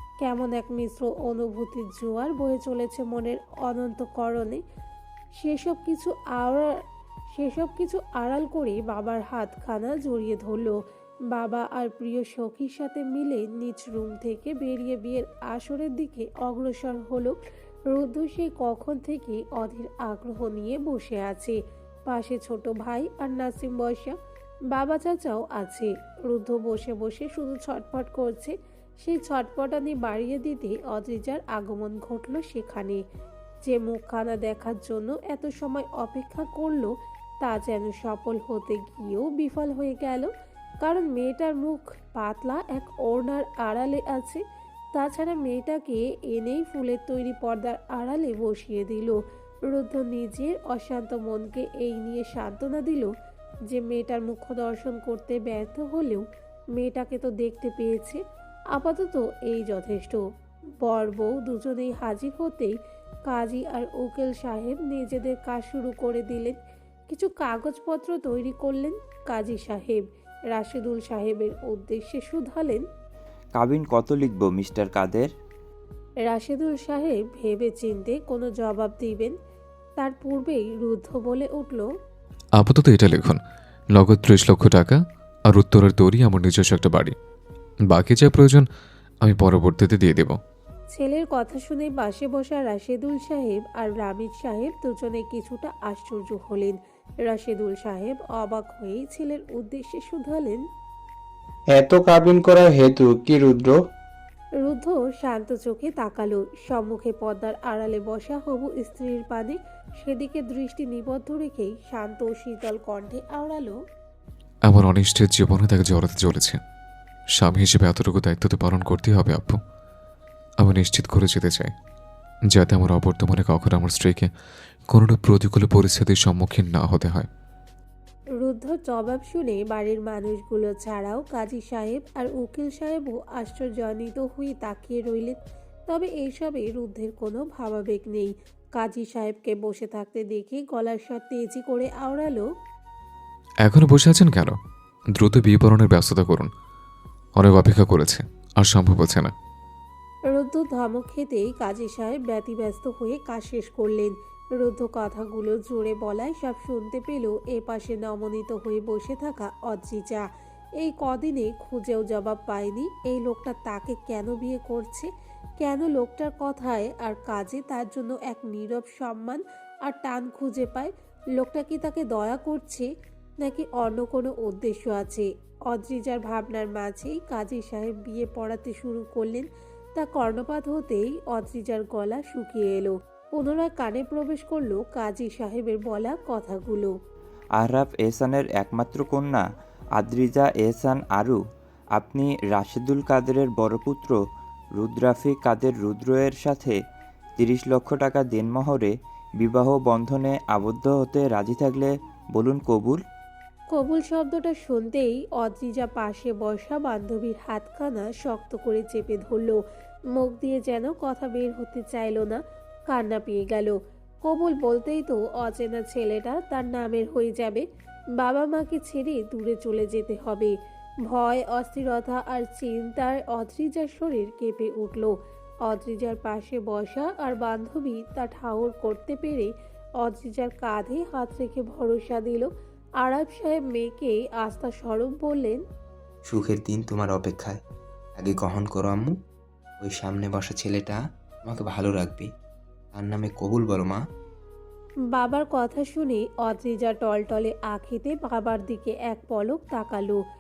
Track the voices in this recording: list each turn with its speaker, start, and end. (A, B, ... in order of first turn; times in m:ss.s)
0:00.2-0:04.6 A
0:05.4-0:06.7 A
0:07.3-0:10.8 A
0:11.3-0:17.3 A
0:17.9-0:24.2 A
0:24.7-0:33.0 A
0:33.6-0:40.3 A
0:40.8-0:44.4 A
0:44.9-0:53.1 A
0:53.7-0:56.2 A
0:56.8-0:58.2 A
0:58.7-1:00.2 A
1:00.8-1:02.8 A
1:03.3-1:06.6 A
1:07.1-1:12.8 A
1:13.6-1:15.3 B
1:16.2-1:19.4 A
1:20.0-1:21.9 A
1:22.6-1:23.4 C
1:23.9-1:27.1 C
1:27.9-1:28.6 C
1:29.2-1:30.4 C
1:30.9-1:40.6 A
1:41.7-1:43.8 D
1:44.6-1:53.8 A
1:54.7-1:56.6 C
1:57.4-1:59.6 C
2:00.6-2:01.7 C
2:02.5-2:04.3 C
2:04.9-2:07.3 C
2:08.4-2:15.4 A
2:15.9-2:22.4 A
2:23.6-2:24.6 C
2:25.2-2:26.5 C
2:27.4-2:29.3 C
2:30.3-2:40.2 A
2:40.8-2:45.1 A
2:45.6-2:52.9 A
2:53.4-3:06.9 A
3:07.6-3:09.4 B
3:10.0-3:11.4 B
3:11.9-3:14.2 B
3:14.8-3:16.8 B
3:17.4-3:23.0 B
3:23.7-3:29.6 A
3:30.1-3:37.6 A
3:38.2-3:40.6 A
3:41.1-3:52.5 A
3:53.0-3:55.6 A
3:56.3-3:57.6 E
3:58.2-3:59.1 E
3:59.8-4:02.3 E
4:02.9-4:04.0 E
4:05.1-4:10.2 A